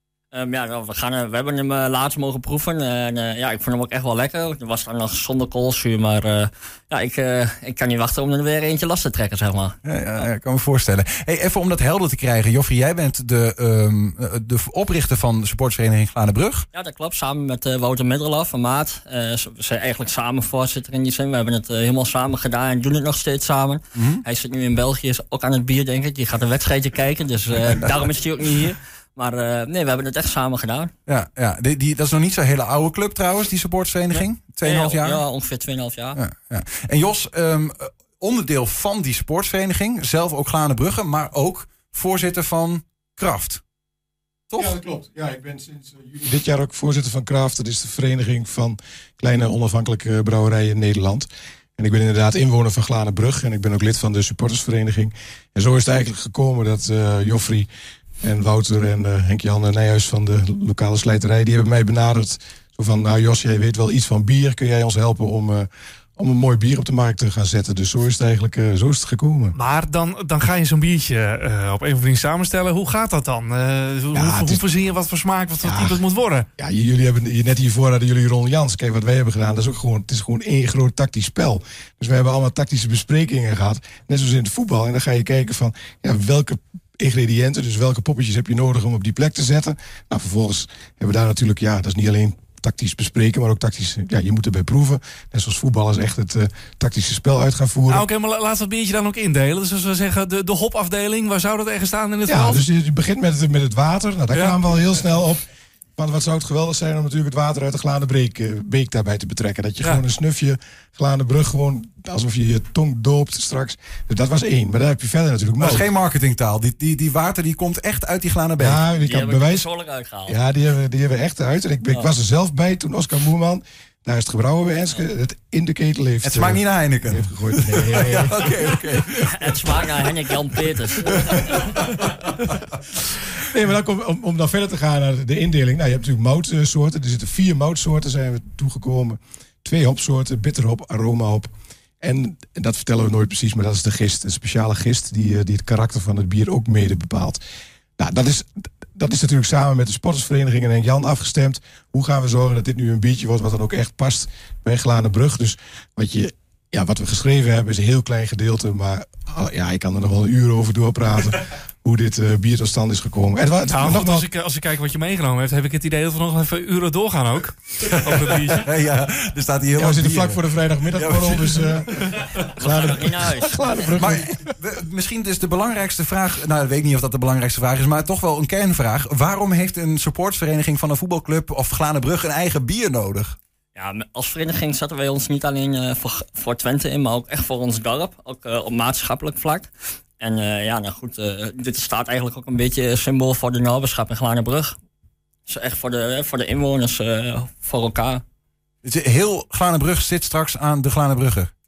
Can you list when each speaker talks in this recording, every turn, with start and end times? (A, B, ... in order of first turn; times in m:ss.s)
0:00.3-0:09.8 A
0:09.8-0:16.7 B
0:16.7-0:30.9 A
0:23.9-0:24.2 B
0:27.6-0:28.0 B
0:31.1-0:35.2 B
0:34.2-0:36.2 A
0:36.2-0:43.6 B
0:44.5-0:44.8 B
0:44.6-0:57.7 C
0:58.2-1:09.6 C
1:09.5-1:16.4 D
1:14.1-1:14.6 C
1:15.6-1:16.0 C
1:16.6-1:38.1 C
1:37.9-1:42.6 D
1:42.3-1:45.4 C
1:44.3-1:44.6 D
1:46.0-1:55.9 C
1:55.6-1:58.8 B
1:58.6-1:59.7 C
1:59.0-2:00.4 A
2:00.2-2:09.1 C
2:06.2-2:09.8 B
2:09.3-2:11.7 A
2:11.1-2:12.5 B
2:13.3-2:27.4 C
2:28.0-2:44.3 C
2:43.7-2:48.7 D
2:47.8-2:51.7 B
2:49.7-2:54.5 C
2:52.6-2:53.9 A
2:54.0-3:03.4 B
3:03.7-3:14.8 A
3:15.5-3:18.2 A
3:18.8-3:21.5 B